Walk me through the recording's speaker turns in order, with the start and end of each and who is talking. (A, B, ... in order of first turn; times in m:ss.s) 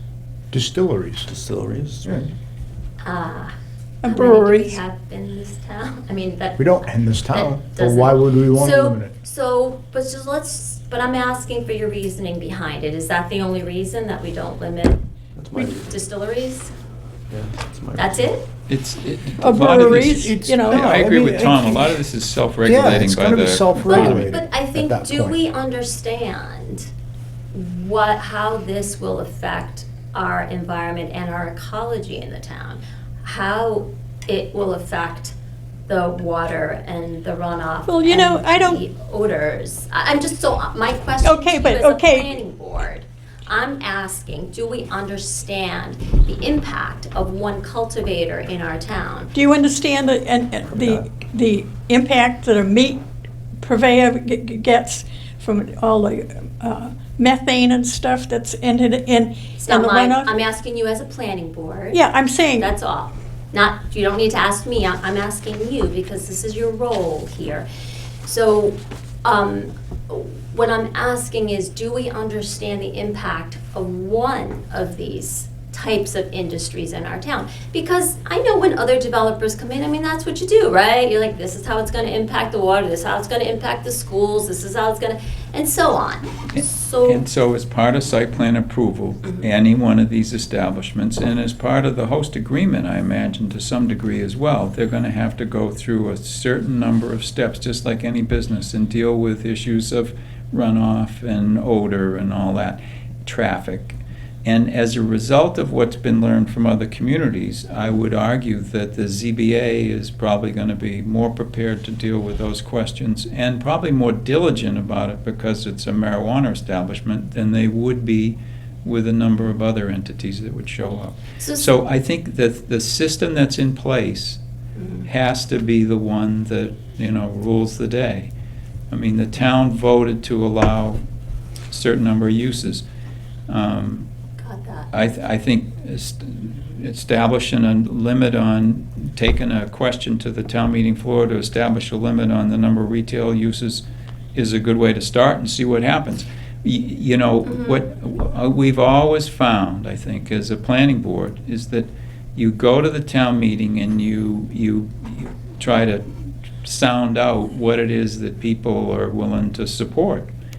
0:00.5-0:01.3 A
0:01.2-0:02.3 B
0:03.0-0:03.5 C
0:04.0-0:04.8 D
0:04.0-0:15.0 C
0:06.6-0:09.1 A
0:15.3-0:16.0 B
0:15.5-0:15.8 D
0:15.9-0:16.7 C
0:17.3-0:18.3 B
0:18.0-0:18.5 C
0:18.7-0:24.2 E
0:19.4-0:20.8 D
0:19.6-0:22.0 A
0:22.6-0:25.4 A
0:23.8-0:26.9 C
0:23.8-0:24.4 B
0:27.5-0:35.3 C
0:35.9-0:49.3 C
0:37.8-0:38.8 D
0:41.2-0:42.4 D
0:49.3-0:53.0 D
0:50.7-0:51.1 B
0:53.6-1:00.3 D
0:59.6-1:02.0 C
1:01.9-1:02.7 D
1:02.6-1:07.7 C
1:08.2-1:27.2 C
1:26.5-2:04.4 E
2:01.4-2:01.8 C
2:04.8-2:05.1 C
2:05.0-2:08.3 E
2:08.9-2:11.0 E
2:11.7-2:12.8 E
2:13.5-2:14.1 E
2:14.4-2:14.9 C
2:14.9-2:23.8 E
2:24.3-2:36.0 E
2:27.4-2:27.8 C
2:36.6-2:40.3 E